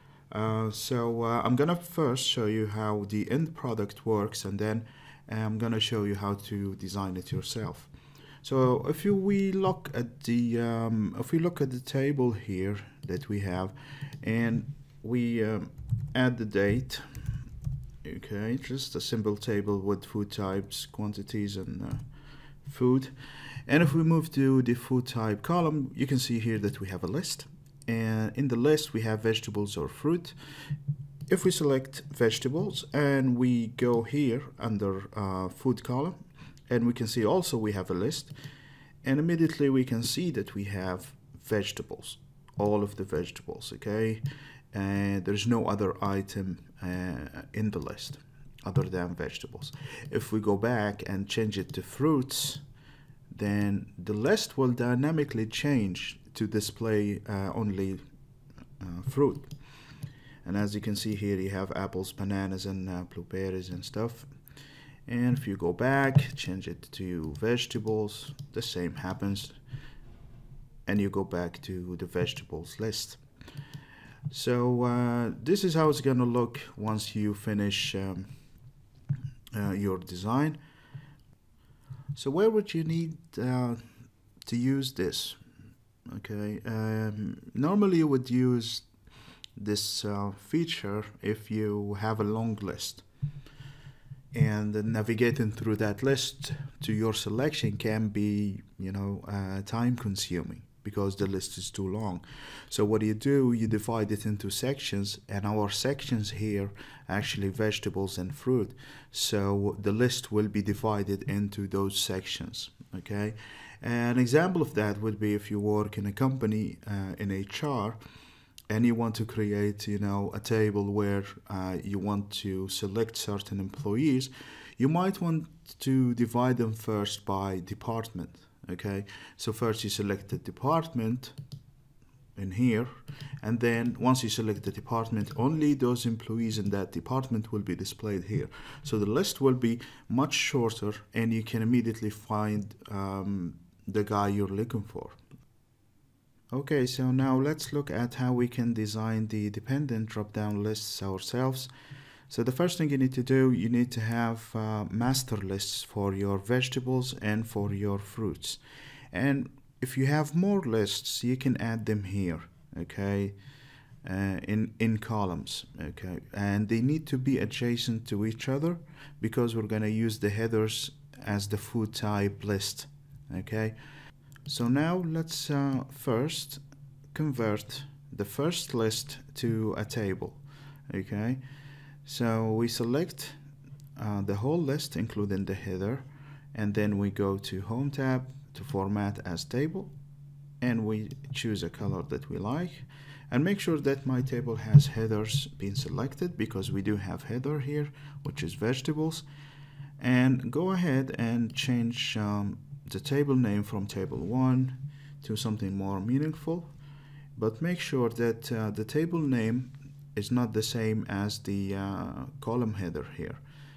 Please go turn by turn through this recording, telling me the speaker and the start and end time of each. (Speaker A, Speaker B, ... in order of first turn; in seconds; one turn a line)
Speaker A: 0.3-17.3
Speaker A: 18.0-22.1
Speaker A: 22.6-30.7
Speaker A: 31.3-38.4
Speaker A: 39.0-52.6
Speaker A: 53.3-58.0
Speaker A: 58.8-59.6
Speaker A: 60.4-64.4
Speaker A: 65.0-69.6
Speaker A: 70.8-73.2
Speaker A: 74.3-78.6
Speaker A: 79.5-80.6
Speaker A: 82.1-85.4
Speaker A: 86.0-88.9
Speaker A: 89.5-93.0
Speaker A: 94.3-118.0
Speaker A: 118.7-131.3
Speaker A: 132.3-145.2
Speaker A: 146.5-151.7
Speaker A: 152.3-163.4
Speaker A: 164.0-173.8
Speaker A: 174.4-181.4
Speaker A: 182.0-183.4
Speaker A: 183.9-189.9
Speaker A: 190.6-199.2
Speaker A: 200.0-206.7
Speaker A: 207.3-213.4